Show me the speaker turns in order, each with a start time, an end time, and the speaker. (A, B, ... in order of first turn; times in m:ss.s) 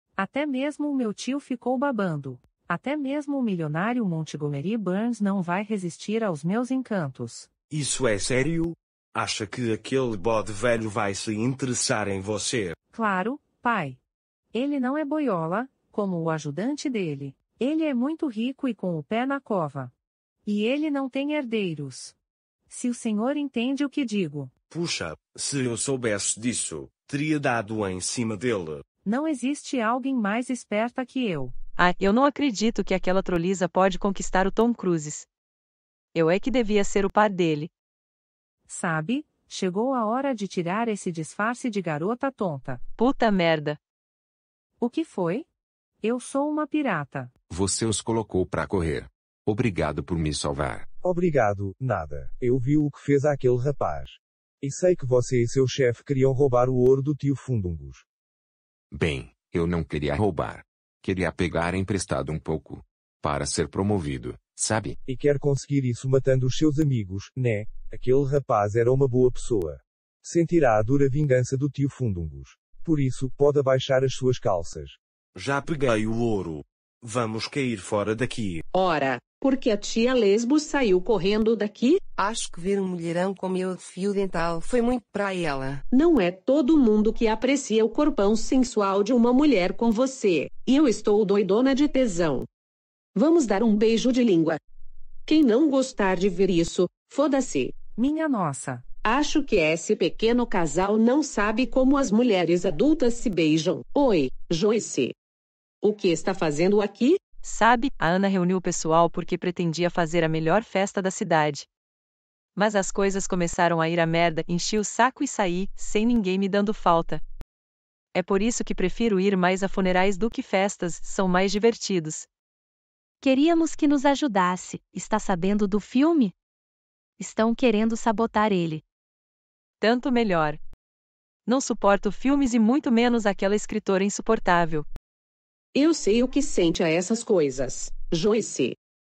0:00.2-0:07.5 A
0:07.7-0:12.7 B
0:12.9-0:14.0 A
0:14.5-0:19.9 A
0:20.4-0:22.2 A
0:22.7-0:24.5 A
0:24.7-0:28.8 B
0:29.0-0:31.5 A
0:31.8-0:35.3 C
0:36.1-0:37.7 C
0:38.7-0:42.8 A
0:43.0-0:43.8 C
0:44.8-0:45.4 A
0:46.0-0:47.3 A
0:47.5-0:50.8 D
0:51.0-0:58.0 E
0:58.9-1:05.0 D
1:05.0-1:15.0 E
1:15.3-1:18.6 B
1:18.7-1:22.0 F
1:22.2-1:25.8 G
1:25.9-1:32.4 F
1:33.1-1:34.6 F
1:35.3-1:37.7 F
1:38.0-1:38.8 A
1:39.0-1:45.1 F
1:45.8-1:47.2 F
1:47.4-1:51.7 C
1:52.6-1:57.2 C
1:58.1-2:02.3 C
2:03.2-2:06.3 H
2:07.2-2:08.8 H
2:09.8-2:10.6 C
2:11.4-2:14.8 C
2:15.7-2:18.8 F